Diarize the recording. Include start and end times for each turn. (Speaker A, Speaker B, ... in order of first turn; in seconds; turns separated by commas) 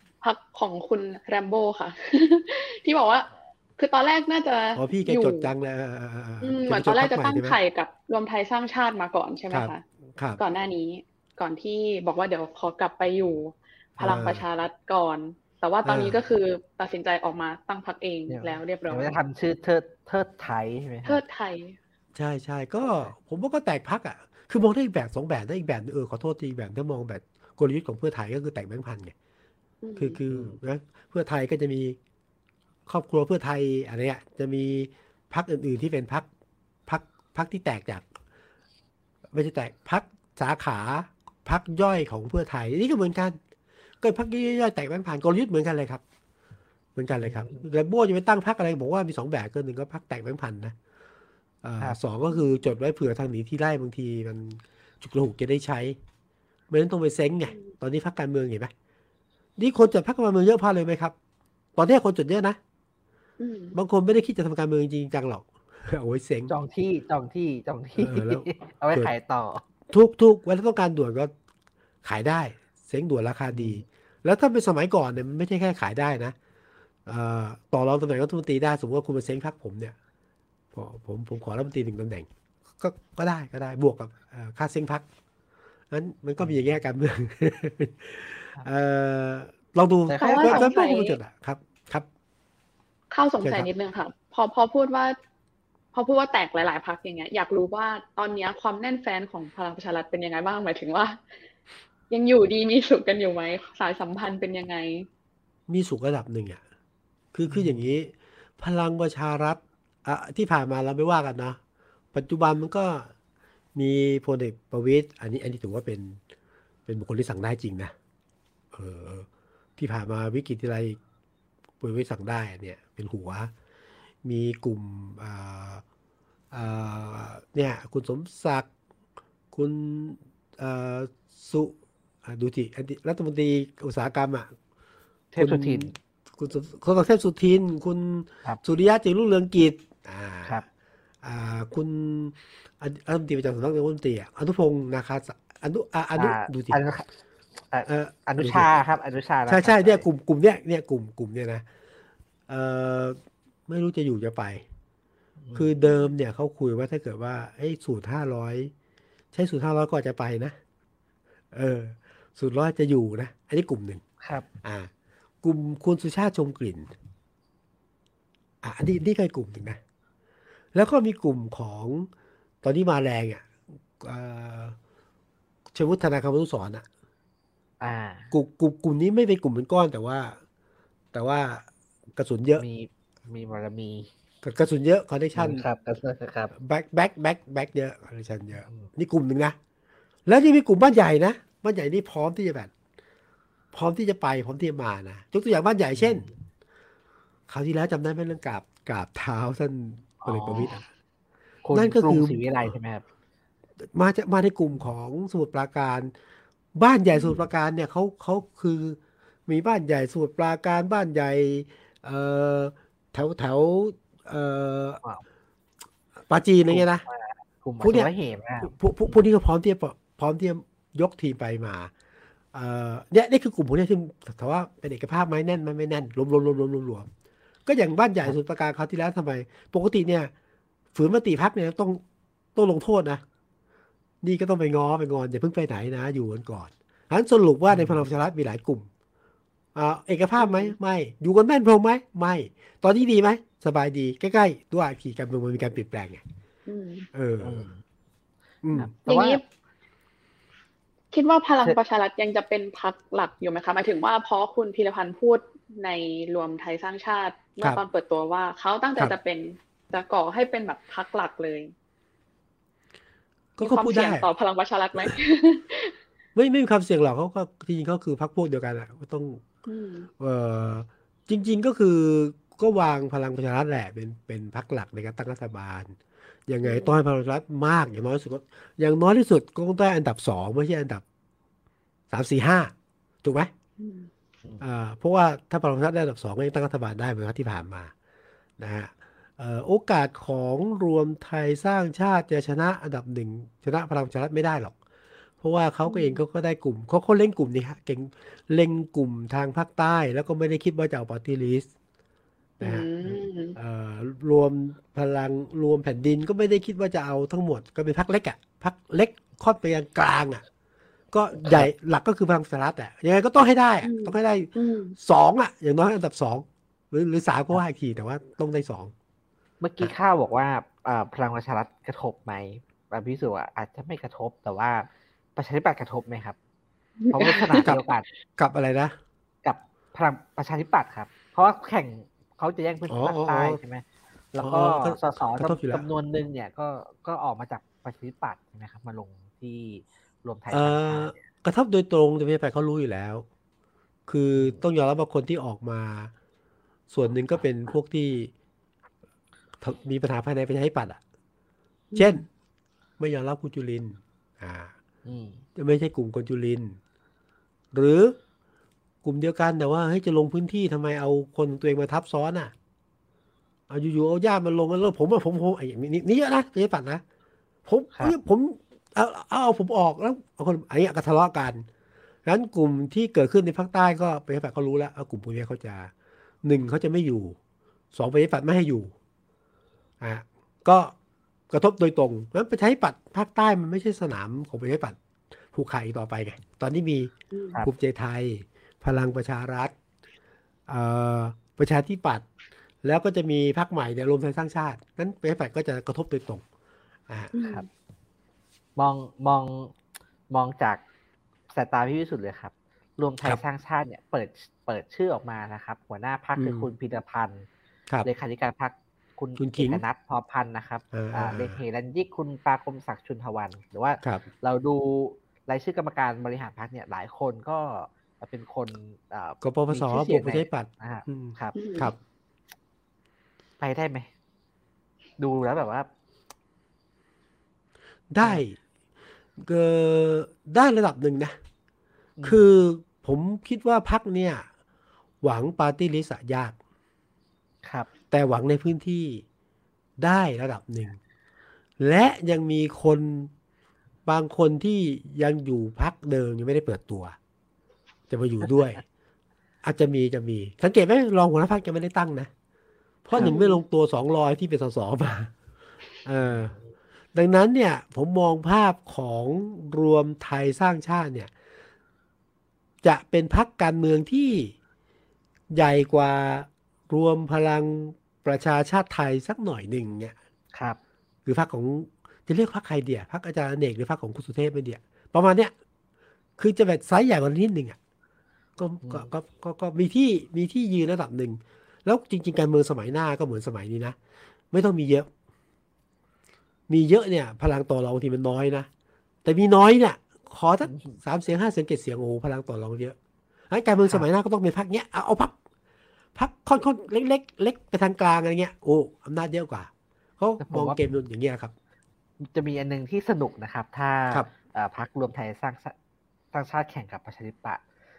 Speaker A: 0.2-5.5, Speaker B: 4.8-7.6, Speaker A: 6.4-9.8, Speaker B: 9.5-10.4, Speaker A: 10.4-19.2, Speaker B: 14.0-14.4, Speaker B: 15.8-16.2, Speaker C: 18.3-21.2, Speaker A: 21.1-21.8, Speaker B: 22.1-29.1, Speaker A: 29.8-30.2, Speaker B: 30.0-32.0, Speaker C: 30.3-30.6, Speaker B: 32.9-36.3, Speaker B: 36.9-38.1, Speaker B: 39.3-43.4, Speaker B: 44.0-46.0, Speaker B: 47.0-50.8, Speaker C: 47.2-47.6, Speaker B: 51.6-56.0, Speaker B: 56.7-58.7, Speaker B: 59.6-61.1, Speaker B: 61.8-62.6, Speaker A: 63.4-63.8, Speaker B: 63.7-66.5, Speaker C: 66.5-69.6, Speaker B: 68.0-69.1, Speaker B: 69.9-71.3, Speaker B: 72.0-76.3, Speaker C: 73.5-73.8, Speaker B: 77.1-80.0, Speaker B: 80.7-82.3, Speaker B: 82.8-85.0, Speaker B: 85.9-92.1, Speaker C: 90.1-90.7, Speaker A: 90.2-91.2, Speaker A: 93.1-95.2, Speaker B: 93.4-93.7, Speaker A: 95.9-101.2, Speaker A: 102.1-105.1, Speaker B: 105.7-106.6, Speaker B: 107.3-111.6, Speaker C: 107.5-107.8, Speaker B: 112.1-113.1, Speaker B: 113.8-116.2, Speaker B: 116.9-117.9, Speaker B: 118.7-121.0, Speaker B: 121.8-123.5, Speaker B: 124.2-125.8, Speaker B: 126.5-128.7, Speaker B: 129.5-134.5, Speaker C: 135.3-135.9, Speaker B: 135.4-140.6, Speaker B: 141.2-146.8, Speaker C: 146.2-147.1, Speaker C: 147.7-150.1, Speaker B: 147.9-148.7, Speaker B: 149.5-151.7, Speaker B: 152.5-154.7, Speaker C: 155.4-155.7, Speaker B: 155.6-158.7, Speaker B: 159.3-160.6, Speaker B: 161.5-164.0, Speaker B: 164.6-164.9, Speaker B: 165.4-166.9, Speaker B: 168.6-169.8, Speaker B: 170.7-172.1, Speaker B: 172.6-174.8, Speaker B: 175.7-176.9, Speaker C: 177.8-178.3, Speaker B: 178.3-180.4, Speaker B: 181.1-182.7, Speaker C: 182.6-184.1, Speaker B: 184.4-185.7, Speaker C: 185.3-186.5, Speaker B: 186.5-189.6, Speaker C: 188.6-188.9, Speaker B: 190.3-192.7, Speaker B: 193.7-196.3, Speaker C: 196.0-196.3, Speaker B: 197.5-200.8, Speaker C: 200.2-200.8, Speaker C: 201.7-203.1, Speaker B: 201.7-202.4, Speaker B: 203.8-206.1, Speaker B: 206.8-215.0, Speaker B: 216.3-217.1, Speaker C: 216.7-218.8, Speaker B: 217.8-221.9, Speaker B: 222.5-227.1, Speaker B: 227.7-230.3, Speaker B: 230.9-232.0, Speaker B: 232.6-233.2, Speaker B: 234.2-238.9, Speaker C: 237.7-238.0, Speaker B: 239.8-246.2, Speaker A: 240.4-240.8, Speaker A: 246.7-247.1, Speaker B: 247.1-247.7, Speaker C: 247.4-247.8, Speaker B: 248.6-248.9, Speaker C: 248.8-249.4, Speaker A: 249.1-249.4, Speaker A: 251.1-261.7, Speaker B: 263.6-264.3, Speaker A: 263.6-266.0, Speaker B: 266.4-269.5, Speaker A: 269.7-270.1, Speaker B: 270.2-281.0, Speaker A: 276.6-277.0, Speaker B: 282.1-283.5, Speaker A: 283.8-284.1, Speaker B: 284.6-287.9, Speaker B: 288.6-294.8, Speaker B: 295.4-301.7, Speaker A: 295.9-296.2, Speaker A: 302.6-303.6, Speaker B: 302.6-310.4, Speaker B: 311.1-318.9, Speaker C: 311.3-311.7, Speaker A: 313.8-315.0, Speaker C: 319.6-326.4, Speaker A: 327.0-327.8, Speaker C: 327.1-328.1, Speaker B: 327.5-327.8, Speaker B: 328.4-329.0, Speaker C: 329.4-341.2, Speaker B: 332.9-333.6, Speaker B: 334.4-335.9, Speaker B: 340.5-343.3, Speaker B: 344.1-346.1, Speaker C: 344.3-344.6, Speaker B: 346.9-348.3, Speaker B: 349.6-351.0, Speaker A: 351.9-352.2, Speaker B: 352.0-352.2, Speaker B: 353.0-354.7, Speaker C: 355.1-355.4, Speaker B: 355.6-356.8, Speaker B: 357.7-358.2, Speaker B: 359.0-362.5, Speaker B: 363.7-367.0, Speaker B: 367.7-371.7, Speaker B: 372.2-375.9, Speaker B: 376.4-377.4, Speaker B: 377.9-378.9, Speaker B: 380.0-380.9, Speaker B: 381.5-385.0, Speaker B: 385.5-387.1, Speaker A: 387.3-387.6, Speaker B: 387.6-389.8, Speaker B: 390.7-392.3, Speaker B: 392.8-396.4, Speaker B: 397.1-397.3, Speaker A: 397.3-397.7, Speaker C: 397.4-397.7, Speaker C: 398.8-399.7, Speaker C: 400.3-400.8, Speaker C: 401.5-407.5, Speaker B: 406.4-406.7, Speaker C: 408.0-421.6, Speaker B: 409.4-409.8, Speaker B: 410.9-411.6, Speaker B: 414.0-414.3, Speaker B: 419.4-421.9, Speaker A: 421.6-421.9, Speaker C: 423.6-424.1, Speaker C: 425.2-425.9, Speaker B: 428.1-428.6, Speaker B: 429.4-431.4, Speaker C: 432.2-432.4, Speaker B: 432.2-434.5, Speaker B: 435.2-436.6, Speaker B: 438.1-439.2, Speaker B: 440.0-441.0, Speaker B: 441.8-443.3, Speaker B: 444.1-447.2, Speaker B: 448.1-448.8, Speaker B: 449.6-452.3, Speaker B: 453.1-455.3, Speaker A: 453.2-453.6, Speaker B: 456.0-456.5, Speaker C: 456.2-456.6, Speaker B: 457.1-461.3, Speaker B: 462.8-464.6, Speaker B: 465.5-470.1, Speaker B: 471.3-475.5, Speaker B: 476.4-477.8, Speaker B: 478.6-484.0, Speaker C: 478.8-479.1, Speaker B: 484.5-485.1, Speaker B: 486.7-488.7, Speaker B: 489.2-493.0, Speaker C: 490.6-491.0, Speaker B: 493.5-495.4, Speaker B: 496.2-501.5, Speaker C: 500.4-500.8, Speaker C: 502.2-505.8, Speaker C: 506.3-507.6